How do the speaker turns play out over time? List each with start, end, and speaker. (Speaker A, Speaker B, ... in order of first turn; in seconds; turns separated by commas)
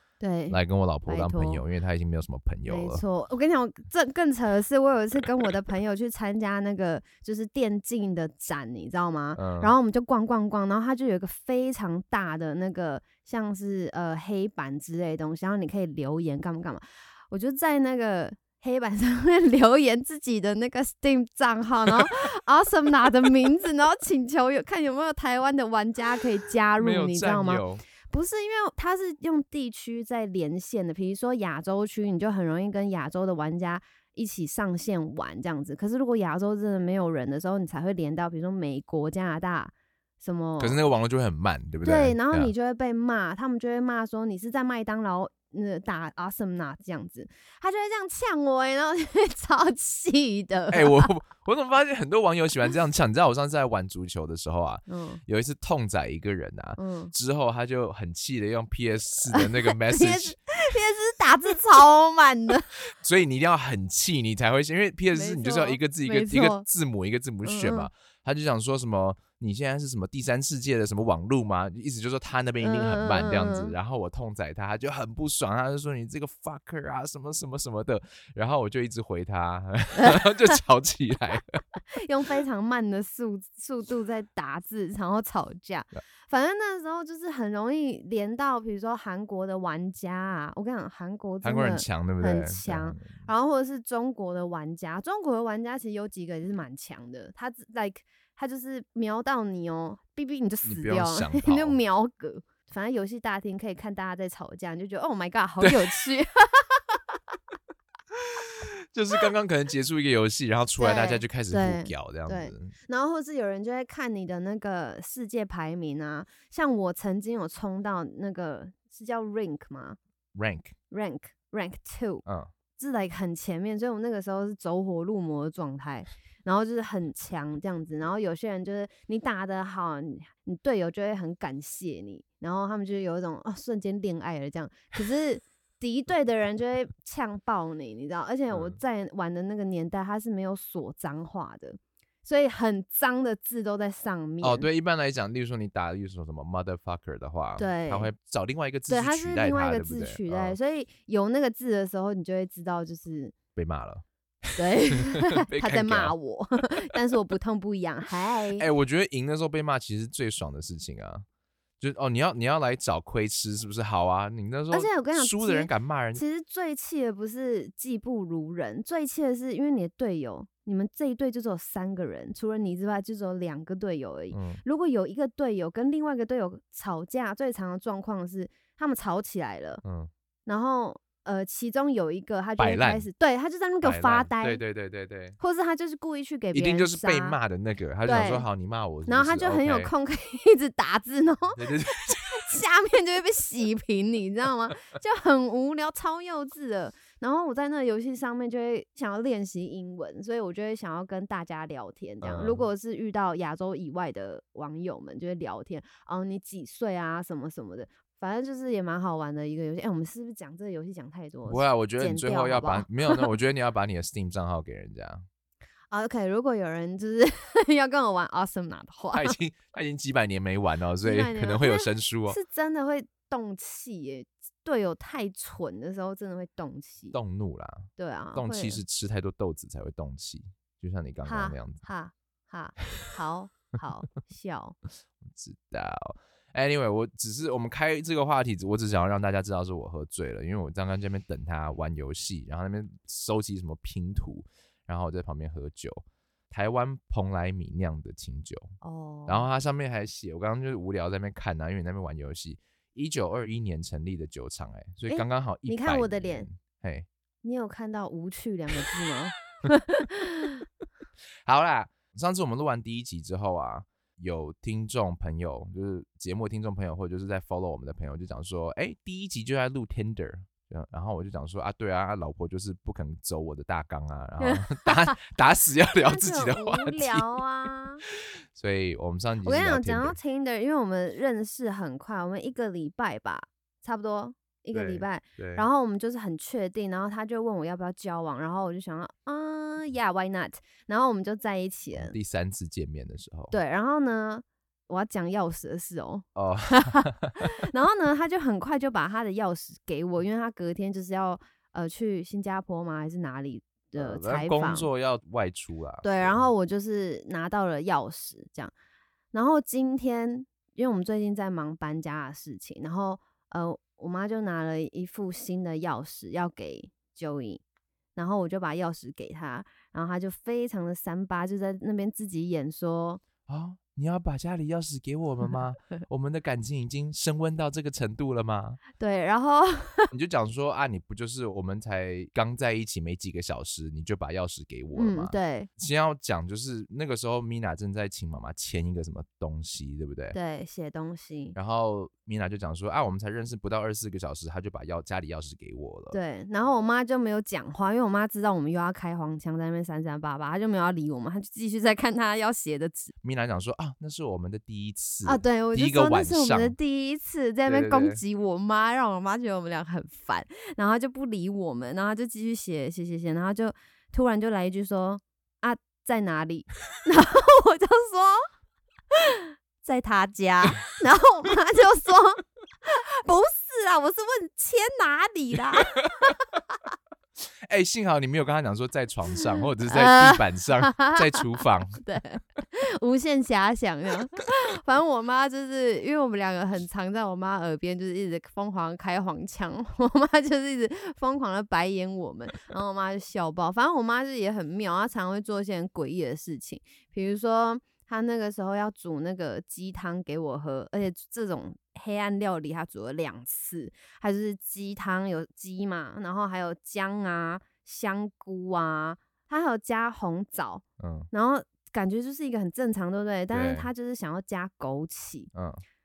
Speaker A: 0.2-1.6, Speaker B: 0.5-3.0, Speaker A: 2.7-40.8, Speaker B: 9.4-9.8, Speaker B: 26.8-27.8, Speaker B: 40.6-42.5, Speaker A: 41.8-51.1, Speaker B: 50.7-60.4, Speaker A: 54.9-55.2, Speaker A: 56.8-57.1, Speaker A: 59.3-62.8, Speaker B: 63.0-81.6, Speaker A: 65.1-66.7, Speaker A: 67.4-67.9, Speaker A: 72.6-73.8, Speaker A: 80.0-80.3, Speaker A: 81.9-107.0, Speaker B: 91.4-93.3, Speaker B: 100.6-101.8, Speaker B: 108.1-112.8, Speaker A: 110.8-120.0, Speaker B: 120.3-120.7, Speaker A: 120.9-122.2, Speaker B: 122.2-122.5, Speaker A: 122.8-144.7, Speaker B: 138.5-138.8, Speaker B: 144.4-150.6, Speaker A: 147.6-148.1, Speaker A: 148.9-153.3, Speaker B: 153.6-156.2, Speaker A: 154.6-158.7, Speaker B: 158.6-161.2, Speaker B: 161.8-166.2, Speaker A: 164.7-179.8, Speaker B: 174.3-174.6, Speaker B: 179.8-180.1, Speaker A: 180.5-184.6, Speaker B: 182.6-183.1, Speaker B: 183.8-185.4, Speaker A: 185.4-187.4, Speaker B: 186.5-189.9, Speaker A: 188.1-188.5, Speaker A: 189.1-213.3, Speaker B: 191.6-192.5, Speaker B: 202.2-202.7, Speaker B: 211.5-215.3, Speaker A: 215.9-219.4, Speaker B: 219.1-222.4, Speaker A: 221.0-227.2, Speaker B: 227.1-231.8, Speaker A: 228.0-228.8, Speaker A: 231.2-234.8, Speaker B: 235.2-248.8, Speaker A: 248.8-249.5, Speaker B: 249.3-257.1, Speaker A: 255.1-256.5, Speaker A: 257.4-260.6, Speaker B: 261.4-277.4, Speaker A: 274.4-275.1, Speaker A: 276.0-278.0, Speaker B: 278.1-280.2, Speaker A: 279.4-292.1, Speaker B: 284.7-285.7, Speaker B: 291.9-293.6, Speaker A: 293.5-304.9, Speaker B: 296.4-297.4, Speaker B: 303.9-306.5, Speaker A: 306.0-308.7, Speaker A: 309.3-317.6, Speaker A: 318.2-323.2, Speaker B: 323.5-328.8, Speaker A: 329.0-330.1, Speaker B: 330.1-340.4, Speaker A: 335.0-335.7, Speaker A: 340.3-341.6, Speaker B: 341.6-346.2, Speaker A: 346.1-353.1, Speaker B: 353.2-356.8, Speaker A: 355.2-368.4, Speaker B: 357.7-358.2, Speaker A: 369.1-376.6, Speaker B: 376.1-376.3, Speaker B: 377.6-382.0, Speaker A: 379.8-415.5, Speaker B: 411.0-411.3, Speaker B: 413.5-413.9, Speaker B: 415.5-415.8